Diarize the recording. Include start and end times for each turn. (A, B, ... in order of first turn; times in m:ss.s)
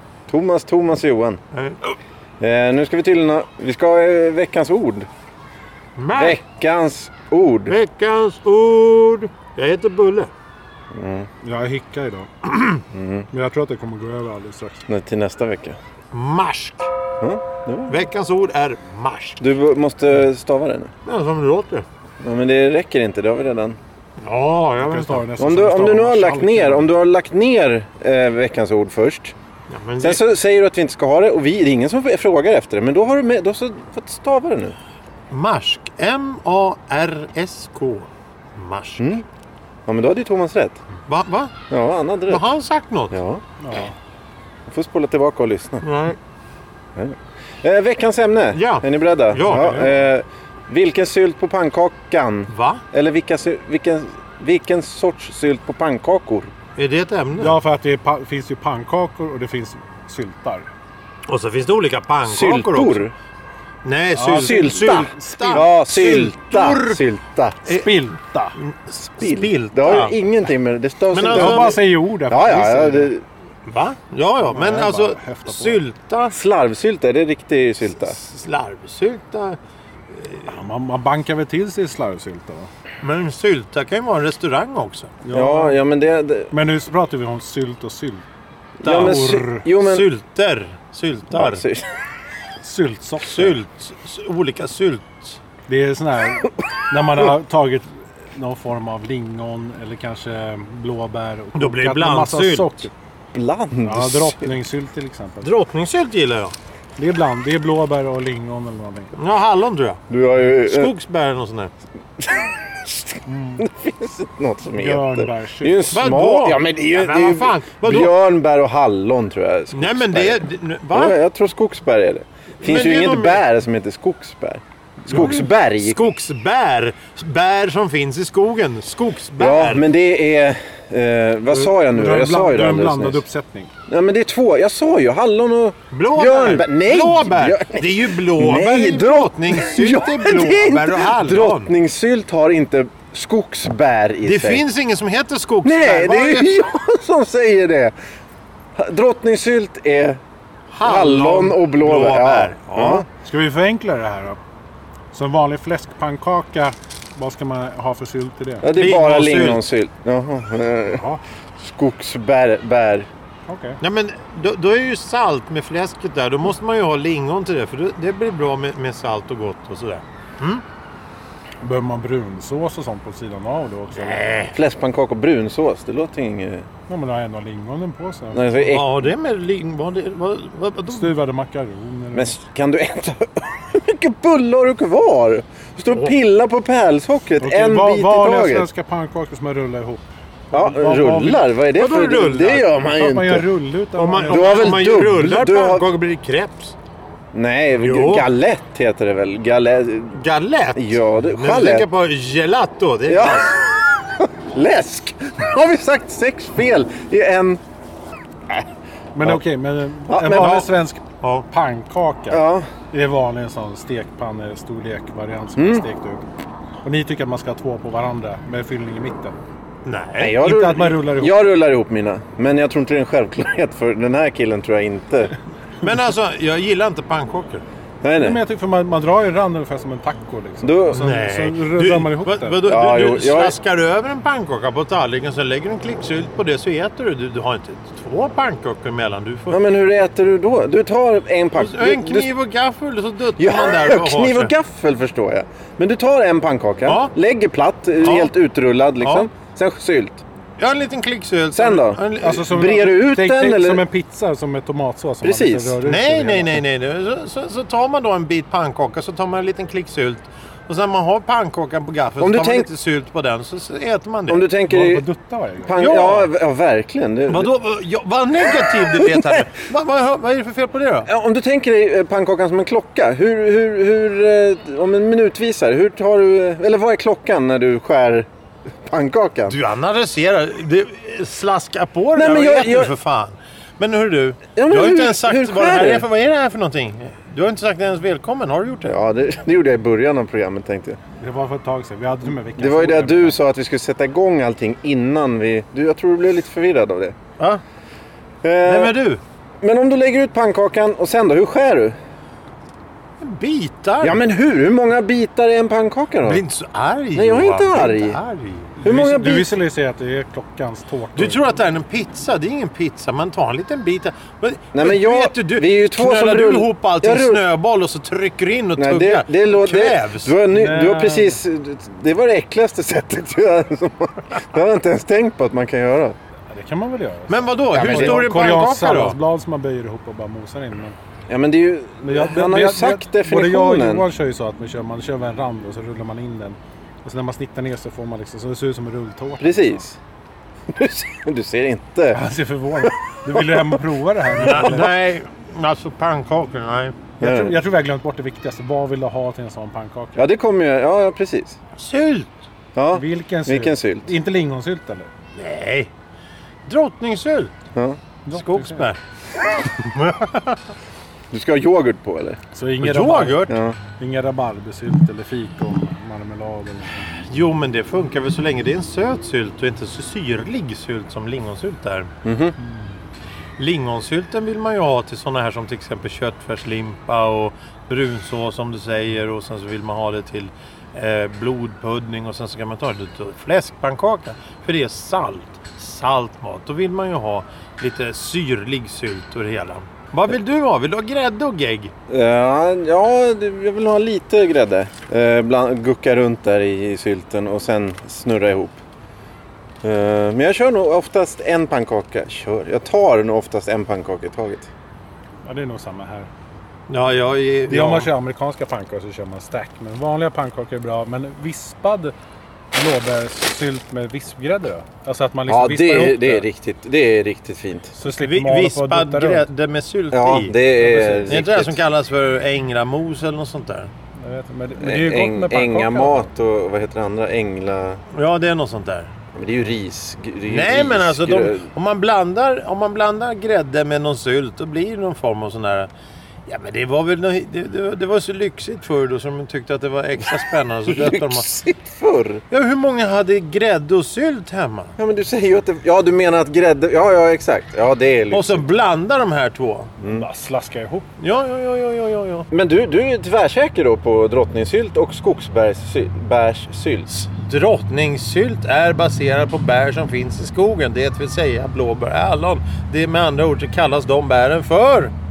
0:00.3-0:01.4 A
0:01.5-0:01.8 B
0:02.4-0:05.1 A
0:06.0-0:06.4 B
0:06.1-0:07.8 A
0:07.7-0:10.3 B
0:10.9-0:11.3 A
0:11.4-0:12.3 C
0:12.9-0:13.3 A
0:13.3-0:14.9 C
0:14.9-0:15.8 A
0:16.1-0:16.9 B
0:17.2-0:18.1 A
0:17.9-0:19.4 B
0:19.4-0:20.9 A
0:21.0-0:21.9 B
0:22.2-0:23.8 A
0:24.2-0:25.3 B
0:24.8-0:26.9 C
0:25.4-0:29.4 A
0:29.7-0:30.2 B
0:30.0-0:34.8 A
0:35.3-0:39.1 B
0:39.0-0:39.2 A
0:39.9-0:40.8 A
0:41.1-0:41.5 B
0:41.7-0:42.4 A
0:42.3-0:43.2 B
0:43.1-0:43.4 A
0:43.6-0:44.0 C
0:44.7-0:45.8 A
0:45.8-0:46.2 B
0:47.0-0:56.5 A
0:48.5-0:49.9 B
0:49.4-0:49.9 C
0:52.5-0:52.8 B
0:56.8-0:57.5 B
0:57.4-1:00.7 C
1:01.3-1:03.0 B
1:02.3-1:03.1 A
1:03.8-1:07.0 B
1:04.2-1:05.6 C
1:04.3-1:07.7 A
1:07.7-1:08.6 C
1:07.7-1:08.0 B
1:08.6-1:10.2 B
1:09.2-1:13.2 A
1:11.1-1:11.8 B
1:11.3-1:13.1 C
1:13.7-1:16.4 B
1:14.5-1:15.8 C
1:16.3-1:18.2 A
1:18.0-1:19.6 B
1:20.1-1:20.5 B
1:20.5-1:22.7 C
1:23.0-1:25.2 B
1:25.2-1:25.8 C
1:25.3-1:26.5 A
1:26.5-1:28.2 C
1:28.8-1:31.6 B
1:28.8-1:30.1 A
1:28.9-1:29.6 C
1:31.3-1:31.8 A
1:32.6-1:33.6 C
1:33.2-1:35.4 B
1:35.7-1:42.9 C
1:41.6-1:42.7 B
1:43.3-1:44.5 A
1:43.8-1:45.5 C
1:45.4-1:46.6 B
1:47.0-1:49.1 C
1:49.2-1:50.0 B
1:50.1-1:50.9 A
1:50.6-1:51.7 B
1:52.2-2:06.0 A
1:53.3-1:53.7 C
1:54.8-1:56.0 C
1:55.9-1:58.1 B
1:59.7-2:01.2 B
2:02.6-2:03.4 B
2:05.0-2:05.4 C
2:05.1-2:09.8 B
2:09.4-2:13.2 A
2:11.5-2:13.7 C
2:13.9-2:24.6 A
2:15.9-2:21.7 B
2:24.2-2:26.6 B
2:25.6-2:28.0 A
2:28.8-2:30.2 A
2:30.7-2:33.1 B
2:30.8-2:33.1 A
2:33.2-2:34.4 C
2:35.1-2:38.7 C
2:38.6-2:41.0 A
2:38.7-2:39.6 B
2:40.9-2:41.2 C
2:41.6-2:43.1 A
2:43.5-2:43.8 C
2:43.8-2:50.6 B
2:51.6-2:54.4 C
2:54.0-2:54.6 B
2:54.5-2:56.7 A
2:56.9-2:58.7 C
2:58.3-2:59.1 A
2:58.6-3:01.1 B
3:00.9-3:02.4 C
3:02.1-3:08.7 A
3:07.4-3:11.5 C
3:10.5-3:13.5 A
3:11.7-3:12.7 B
3:12.9-3:14.8 C
3:14.0-3:16.8 B
3:14.3-3:15.9 A
3:17.3-3:20.2 A
3:17.8-3:18.3 B
3:20.2-3:23.6 B
3:20.8-3:21.9 A
3:23.1-3:23.6 A
3:24.2-3:27.6 A
3:29.1-3:36.2 C
3:30.1-3:30.7 A
3:32.3-3:32.7 A
3:35.6-3:35.8 A
3:36.8-3:39.4 C
3:39.8-3:40.4 B
3:40.2-3:45.4 A
3:40.4-3:41.3 C
3:45.8-3:47.6 B
3:48.0-3:48.4 A
3:48.2-3:52.6 C
3:50.6-3:51.1 A
3:51.0-3:59.6 B
3:52.6-3:53.6 A
3:59.5-4:02.3 A
4:01.6-4:04.5 B
4:03.4-4:10.2 A
4:06.9-4:07.1 B
4:08.0-4:08.3 B
4:09.0-4:09.3 B
4:10.6-4:12.5 B
4:11.5-4:13.8 A
4:12.2-4:16.6 C
4:15.2-4:15.8 A
4:15.8-4:24.4 B
4:22.2-4:22.7 A
4:24.3-4:25.1 A
4:24.7-4:25.9 C
4:25.6-4:27.5 A
4:25.8-4:26.3 B
4:27.3-4:31.1 B
4:29.0-4:29.4 A
4:31.1-4:38.3 A
4:38.8-4:39.6 A
4:39.5-4:49.0 B
4:42.2-4:42.9 A
4:44.6-4:46.1 A
4:48.8-4:51.0 A
4:51.2-4:53.4 C
4:52.6-4:57.2 A
4:58.4-4:59.0 A
4:58.7-4:59.2 B
4:59.6-5:02.0 A
5:03.2-5:04.2 B
5:04.0-5:06.4 A
5:06.2-5:08.8 B
5:07.2-5:08.2 A
5:08.8-5:11.4 C
5:08.8-5:09.5 A
5:11.2-5:20.4 B
5:14.7-5:17.4 A
5:18.8-5:26.2 A
5:20.5-5:21.4 C
5:26.5-5:31.0 C
5:27.3-5:29.2 B
5:27.7-5:28.3 A
5:31.3-5:34.1 A
5:32.0-5:39.8 C
5:39.4-5:40.0 A
5:40.7-5:42.2 A
5:42.1-5:45.0 C
5:43.3-5:43.8 A
5:44.4-5:47.0 B
5:47.2-5:50.2 C
5:47.2-5:47.6 A
5:50.2-5:51.6 A
5:51.8-5:52.3 B
5:52.8-5:54.1 A
5:52.9-5:55.1 C
5:55.4-5:55.9 B
5:56.7-5:57.5 B
5:58.3-5:58.9 C
5:58.3-5:59.0 B
5:59.8-6:00.6 B
6:01.3-6:02.4 A
6:02.5-6:03.5 C
6:02.8-6:03.6 B
6:03.5-6:03.8 A
6:04.0-6:07.1 C
6:07.3-6:12.1 B
6:12.2-6:12.5 A
6:13.6-6:31.9 B
6:32.1-6:38.8 A
6:39.8-6:44.7 A
6:45.4-6:46.3 C
6:46.9-6:48.1 B
6:47.7-6:52.1 C
6:52.7-6:56.5 C
6:55.5-6:57.9 A
6:58.0-6:59.5 C
6:58.1-7:00.6 B
7:00.1-7:01.8 A
7:00.8-7:01.4 C
7:01.3-7:03.9 B
7:04.2-7:06.3 C
7:04.8-7:08.0 A
7:08.1-7:09.1 B
7:09.3-7:11.7 A
7:10.5-7:15.9 B
7:16.5-7:21.5 B
7:20.9-7:22.4 A
7:22.5-7:25.0 B
7:25.0-7:28.6 A
7:28.3-7:29.9 B
7:30.0-7:30.3 A
7:30.1-7:31.1 C
7:31.2-7:32.5 B
7:32.5-7:37.1 A
7:37.1-7:45.1 B